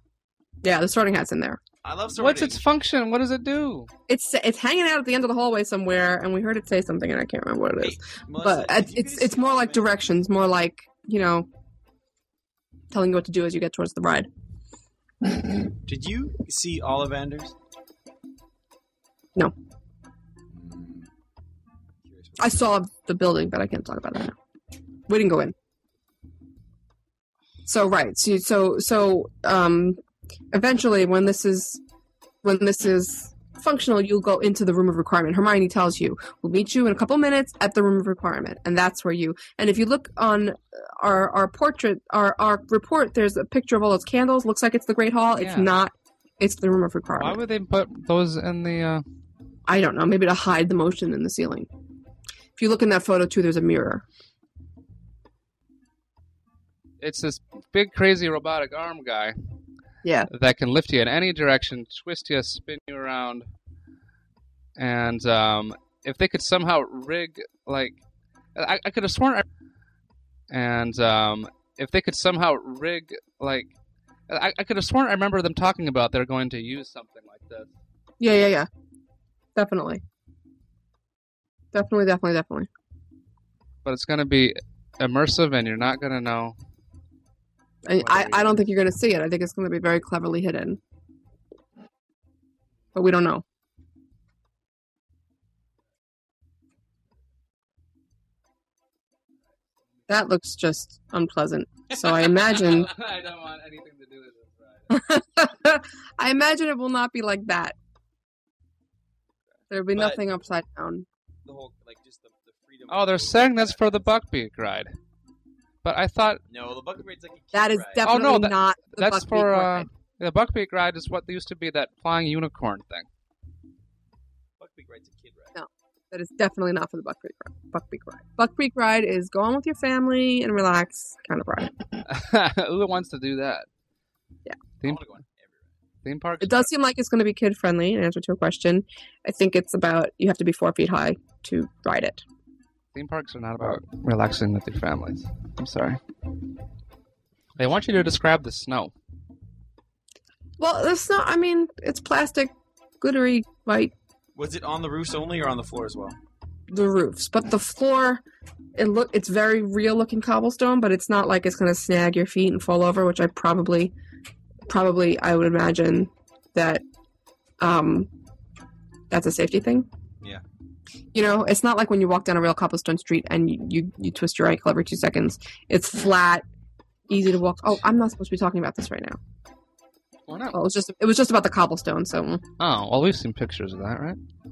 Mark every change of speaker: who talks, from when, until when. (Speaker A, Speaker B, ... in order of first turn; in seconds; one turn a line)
Speaker A: 0.6-1.6
Speaker B: 1.8-2.6
Speaker C: 2.2-3.9
Speaker A: 4.1-11.5
Speaker B: 7.8-10.0
Speaker A: 12.9-14.3
Speaker B: 15.8-17.5
Speaker B: 20.5-21.1
Speaker B: 22.0-22.7
Speaker A: 22.4-24.4
Speaker A: 25.1-25.6
Speaker A: 27.7-30.0
Speaker A: 30.5-31.8
Speaker A: 32.4-47.4
Speaker C: 45.4-45.7
Speaker C: 47.2-49.0
Speaker A: 49.7-51.7
Speaker A: 52.6-54.0
Speaker C: 57.0-59.4
Speaker A: 60.0-60.3
Speaker C: 60.3-63.5
Speaker C: 64.8-68.0
Speaker C: 68.6-69.5
Speaker C: 70.5-73.7
Speaker C: 74.3-77.7
Speaker A: 78.2-78.7
Speaker A: 79.6-80.0
Speaker A: 81.7-82.7
Speaker C: 83.8-86.5
Speaker A: 87.9-90.8
Speaker C: 88.0-88.7
Speaker A: 93.0-93.4
Speaker A: 100.1-102.9
Speaker C: 102.3-105.0
Speaker A: 104.9-107.8
Speaker A: 109.7-111.1
Speaker B: 110.0-110.2
Speaker B: 111.5-114.2
Speaker C: 112.9-114.9
Speaker C: 115.8-116.4
Speaker B: 116.5-118.1
Speaker A: 117.5-119.9
Speaker C: 118.0-123.1
Speaker B: 124.6-125.5
Speaker A: 125.5-131.8
Speaker C: 132.1-133.7
Speaker C: 134.8-135.1
Speaker B: 134.8-135.8
Speaker C: 136.0-136.7
Speaker A: 136.4-142.2
Speaker C: 142.9-146.0
Speaker C: 147.6-148.9
Speaker A: 150.6-153.9
Speaker B: 154.4-156.2
Speaker A: 156.7-158.2
Speaker A: 158.8-163.9
Speaker A: 164.7-166.8
Speaker A: 167.6-168.1
Speaker A: 169.1-169.9
Speaker A: 171.1-176.4
Speaker A: 177.1-179.2
Speaker C: 180.3-180.6
Speaker A: 180.5-182.4
Speaker C: 182.6-184.2